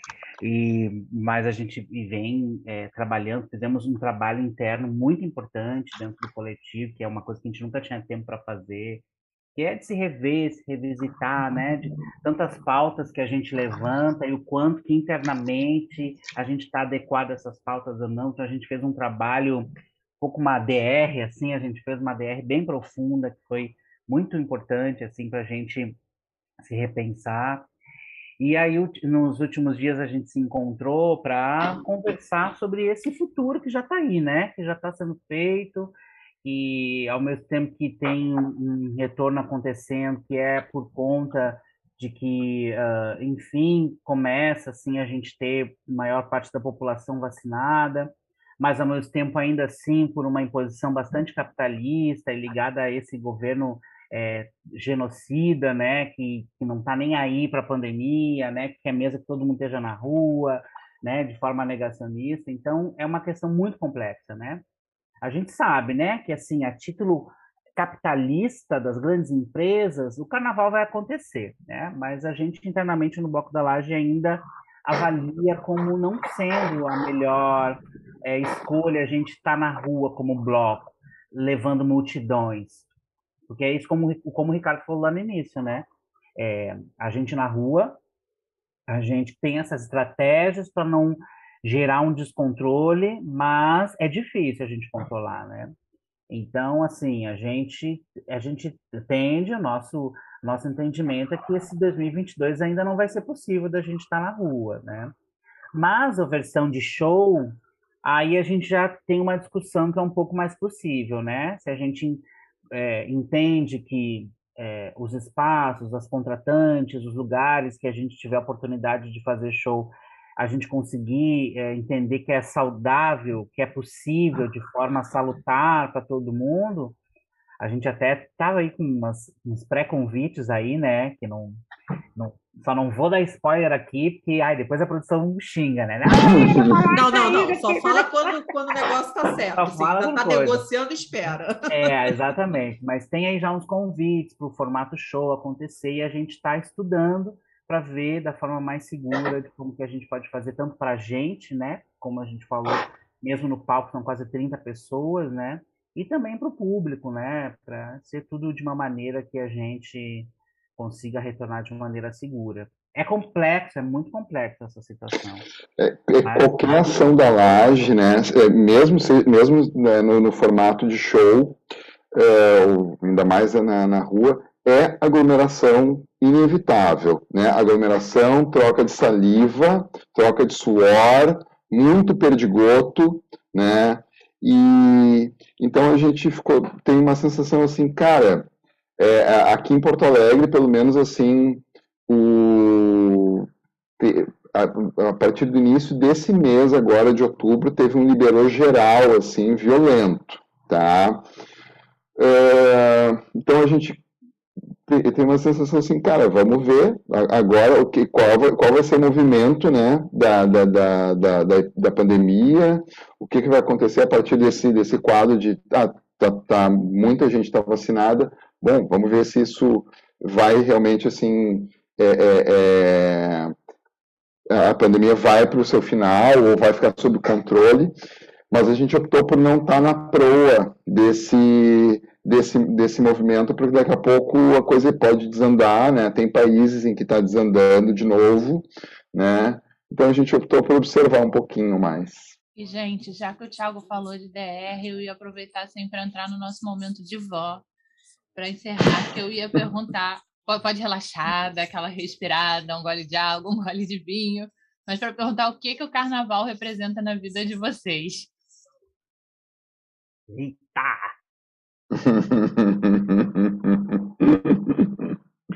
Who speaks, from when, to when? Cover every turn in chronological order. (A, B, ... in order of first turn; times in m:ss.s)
0:00.4-0:09.0 A
0:09.6-0:26.0 A
0:26.6-0:27.7 A
0:28.4-1:04.6 A
1:05.2-1:22.9 A
1:23.5-1:25.9 A
1:26.4-1:28.0 A
1:28.9-1:35.8 A
1:36.3-1:45.1 A
1:45.7-2:07.0 A
2:07.6-2:11.6 A
2:12.2-2:18.3 A
2:16.1-2:16.9 B
2:16.9-2:22.1 C
2:19.6-2:20.6 A
2:21.7-2:45.5 A
2:45.8-2:51.6 B
2:46.2-2:46.9 A
2:52.1-3:13.5 B
3:14.0-3:21.3 B
3:22.2-3:24.0 B
3:24.9-3:43.5 B
3:44.5-3:47.9 B
3:48.5-4:02.4 B
4:02.6-4:07.6 D
4:08.4-4:18.3 D
4:20.3-4:21.1 A
4:21.9-4:25.1 B